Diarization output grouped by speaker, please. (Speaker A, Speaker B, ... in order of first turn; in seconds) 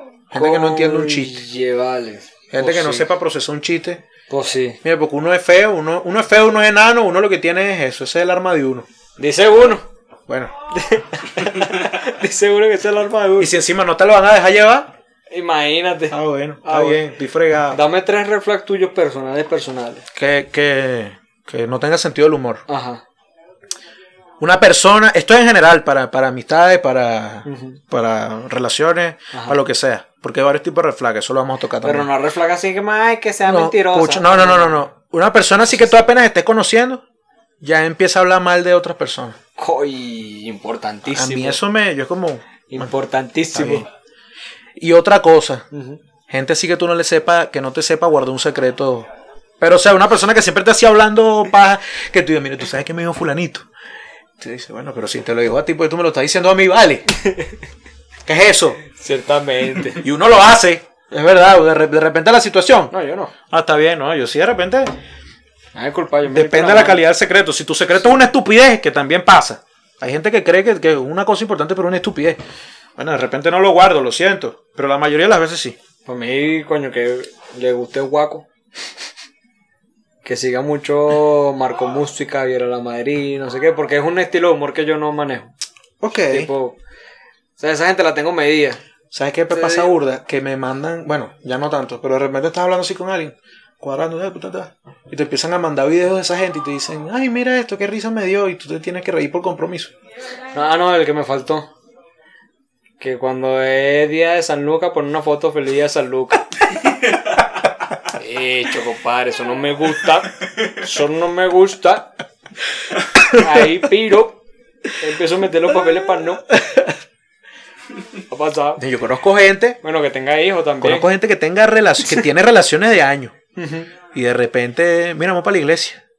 Speaker A: 0.3-1.4, 2.5-4.0, 4.8-8.8, 13.4-14.9, 16.1-17.8, 20.1-22.6, 24.4-32.1, 33.5-37.0, 37.6-39.4, 41.1-42.9, 43.5-43.9, 44.8-45.6, 46.3-49.1, 49.6-53.6, 54.4-57.0, 58.3-58.8, 60.0-62.9, 63.5-64.9, 66.3-72.4, 73.0-75.8, 86.0-86.5, 89.1-99.9, 116.6-116.9, 118.8-119.8, 120.8-123.3, 124.1-126.0
Speaker B: 0.3-3.1, 4.3-4.8, 9.2-9.8, 10.7-13.5, 15.3-17.0, 17.7-20.0, 22.7-23.0, 27.4-27.8, 29.3-29.6, 31.8-34.8, 39.6-41.6, 42.7-43.9, 45.7-46.0, 57.1-57.6, 58.9-60.0, 62.9-63.3, 65.7-67.0, 76.0-78.5, 80.2-85.5, 86.3-86.8, 87.6-88.8, 89.5-89.9, 100.5-101.7, 103.0-106.5, 108.1-112.1, 113.2-114.4, 114.9-116.5, 118.3-118.8, 119.8-121.1, 123.5-123.9